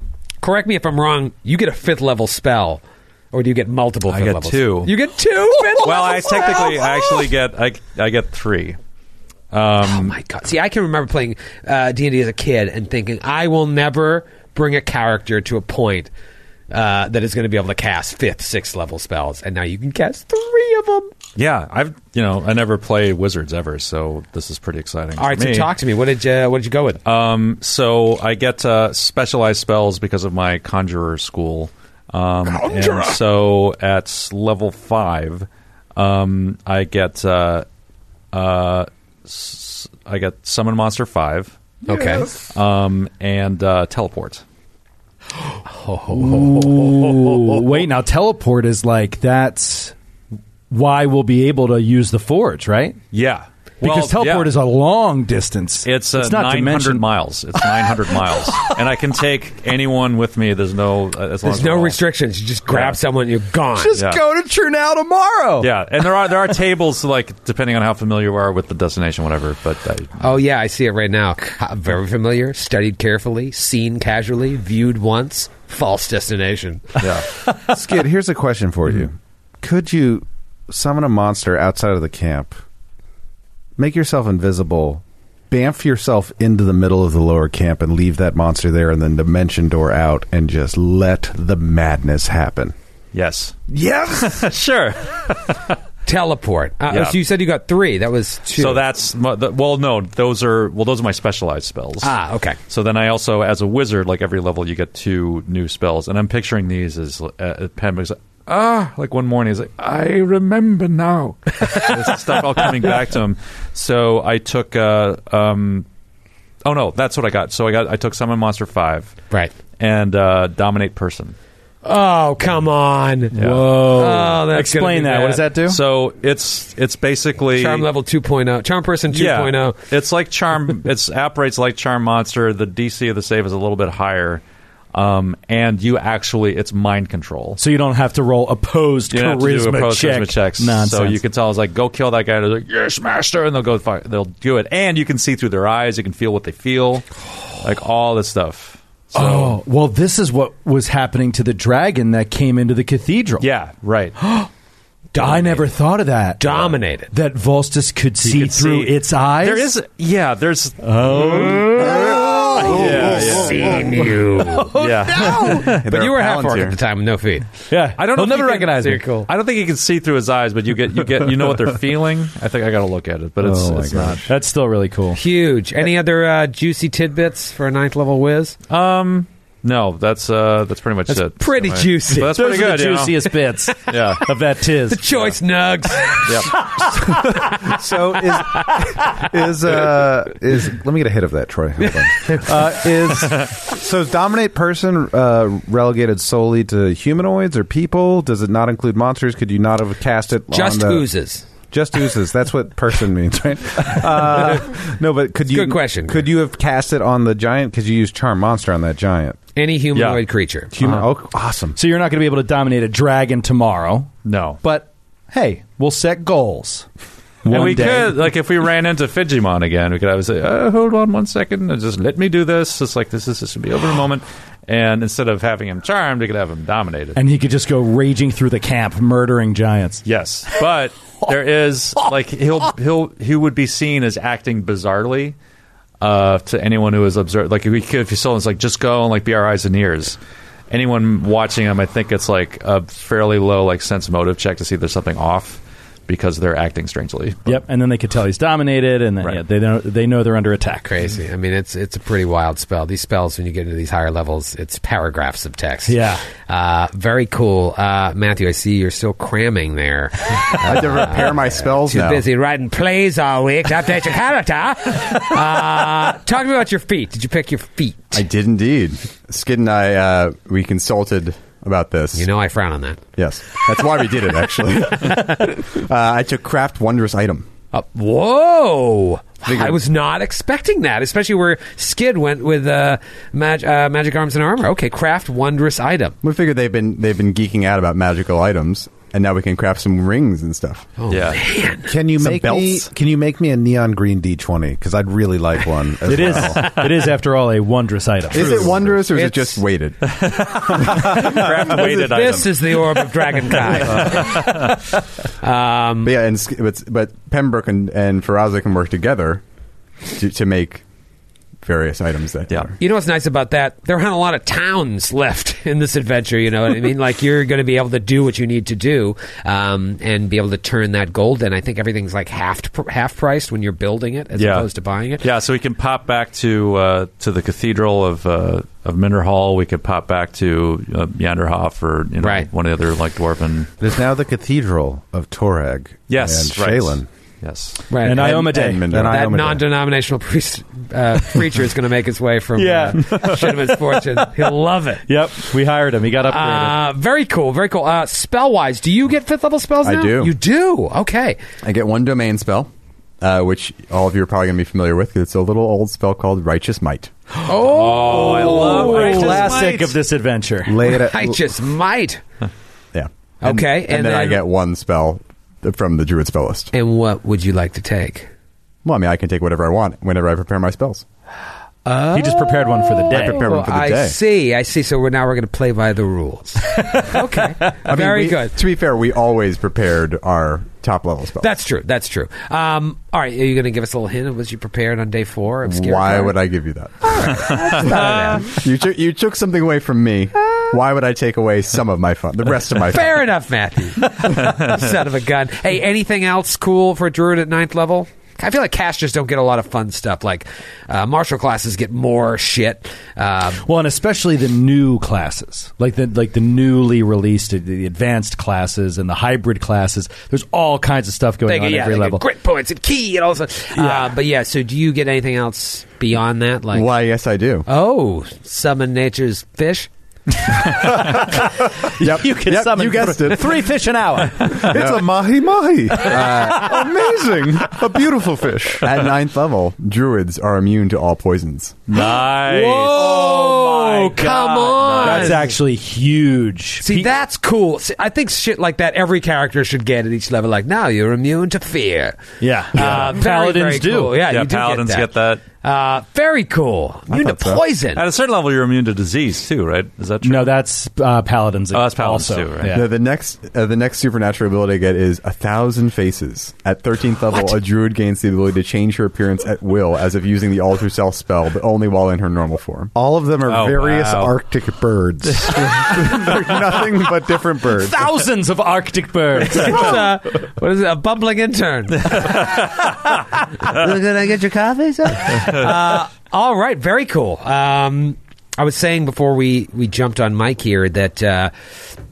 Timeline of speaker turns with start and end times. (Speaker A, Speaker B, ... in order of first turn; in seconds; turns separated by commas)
Speaker A: 0.4-7.1, Speaker B: 4.1-4.9, Speaker B: 5.8-8.8, Speaker B: 9.5-10.1, Speaker A: 9.8-16.1, Speaker A: 16.7-21.1, Speaker B: 21.4-25.7, Speaker A: 25.2-27.0, Speaker B: 27.1-37.7, Speaker A: 32.5-33.2, Speaker B: 38.3-41.6, Speaker A: 41.9-42.3, Speaker B: 42.4-44.4, Speaker A: 45.5-47.5, Speaker C: 46.1-50.0, Speaker C: 50.7-53.0, Speaker B: 53.1-54.5, Speaker C: 53.8-57.1, Speaker B: 55.9-62.0, Speaker A: 61.4-63.9, Speaker B: 62.7-63.0, Speaker C: 63.8-65.7, Speaker B: 64.0-64.2, Speaker B: 65.6-70.3, Speaker A: 70.2-77.1, Speaker B: 77.0-77.3, Speaker D: 77.6-82.6, Speaker D: 83.8-92.8, Speaker B: 93.1-95.8, Speaker A: 96.1-98.8, Speaker B: 96.9-97.2, Speaker B: 98.5-102.2, Speaker A: 102.0-102.6, Speaker B: 102.7-115.9, Speaker B: 116.6-119.2, Speaker B: 119.8-121.4, Speaker A: 121.8-125.5, Speaker C: 123.3-125.8, Speaker B: 123.3-123.7, Speaker B: 125.7-127.9, Speaker A: 127.5-129.8, Speaker B: 129.1-134.4, Speaker B: 134.9-137.6, Speaker C: 137.6-141.2, Speaker B: 139.1-149.6, Speaker C: 149.1-153.5, Speaker B: 153.4-154.2, Speaker C: 155.2-159.8, Speaker A: 155.2-155.6, Speaker A: 156.4-157.1, Speaker B: 158.2-161.8, Speaker C: 160.8-163.4, Speaker A: 161.8-167.5, Speaker B: 162.7-164.0, Speaker B: 164.8-165.7, Speaker C: 164.8-165.8, Speaker E: 165.8-166.8, Speaker C: 167.7-169.0, Speaker B: 168.0-174.3, Speaker A: 168.3-169.3, Speaker D: 173.4-174.3, Speaker C: 174.3-175.2, Speaker A: 175.2-178.6, Speaker B: 178.7-184.2, Speaker A: 181.1-182.3, Speaker C: 182.1-185.0, Speaker A: 184.9-187.0, Speaker B: 186.3-186.6, Speaker D: 187.0-201.1, Speaker A: 191.9-192.4, Speaker A: 200.5-201.5, Speaker D: 201.7-209.4, Speaker A: 205.4-206.3, Speaker A: 209.6-210.8, Speaker B: 209.9-210.2, Speaker D: 210.7-211.8, Speaker C: 210.8-211.1, Speaker C: 211.7-216.9, Speaker B: 214.2-214.6, Speaker C: 217.4-218.2, Speaker B: 217.5-227.2, Speaker C: 227.2-230.0, Speaker B: 230.1-235.3, Speaker B: 236.0-240.2, Speaker B: 240.7-247.6, Speaker C: 247.4-250.9, Speaker A: 250.9-268.2, Speaker C: 255.9-256.2, Speaker E: 260.6-262.2, Speaker E: 268.1-272.3, Speaker A: 272.1-273.0, Speaker E: 273.2-277.5, Speaker A: 277.7-286.2, Speaker E: 279.4-279.8, Speaker E: 286.2-290.9, Speaker A: 291.0-292.0, Speaker B: 291.1-291.4, Speaker D: 291.9-296.8, Speaker E: 292.2-292.9, Speaker C: 296.1-298.9, Speaker E: 298.3-300.7, Speaker A: 299.1-299.6, Speaker B: 300.0-304.8, Speaker A: 301.1-304.8, Speaker A: 305.4-306.1, Speaker E: 306.0-309.4, Speaker E: 310.1-310.8, Speaker E: 311.6-312.7, Speaker A: 312.8-325.2, Speaker B: 324.4-324.7, Speaker B: 325.2-333.7, Speaker A: 332.2-332.5, Speaker D: 333.8-337.1, Speaker B: 336.1-337.8, Speaker A: 337.9-338.4, Speaker C: 338.0-338.9, Speaker E: 338.1-339.3, Speaker D: 338.9-339.6, Speaker A: 339.0-345.0, Speaker C: 342.6-344.3, Speaker C: 345.1-346.8, Speaker A: 346.3-351.4, Speaker E: 349.8-350.4, Speaker E: 351.6-357.1, Speaker A: 357.4-359.6, Speaker B: 357.5-360.0, Speaker C: 358.5-360.8, Speaker D: 360.6-361.4, Speaker A: 360.8-362.2, Speaker E: 362.9-366.7, Speaker A: 363.4-364.4, Speaker A: 366.7-368.3, Speaker E: 368.9-371.1, Speaker A: 371.9-378.5, Speaker C: 372.1-373.4, Speaker E: 373.1-374.2, Speaker E: 377.9-381.5, Speaker A: 381.4-386.4, Speaker E: 385.6-393.2, Speaker A: 387.0-388.6, Speaker A: 392.8-403.6, Speaker C: 403.6-412.2, Speaker A: 411.5-416.9, Speaker C: 413.7-414.1, Speaker E: 416.7-417.7, Speaker A: 417.7-419.9, Speaker E: 422.0-423.7, Speaker C: 422.0-424.7, Speaker D: 424.5-428.9, Speaker E: 424.7-425.1, Speaker E: 426.1-426.6, Speaker E: 428.8-431.8, Speaker B: 431.9-435.5, Speaker A: 432.0-435.6, Speaker C: 432.6-437.1, Speaker A: 436.8-448.0, Speaker C: 442.4-444.1, Speaker B: 444.2-445.4, Speaker E: 447.1-447.6, Speaker B: 447.9-450.5, Speaker C: 450.2-452.9, Speaker B: 451.7-452.8, Speaker E: 452.7-462.9, Speaker D: 462.9-468.0, Speaker B: 463.4-464.4, Speaker C: 467.8-469.9, Speaker A: 469.5-472.8, Speaker A: 473.6-481.5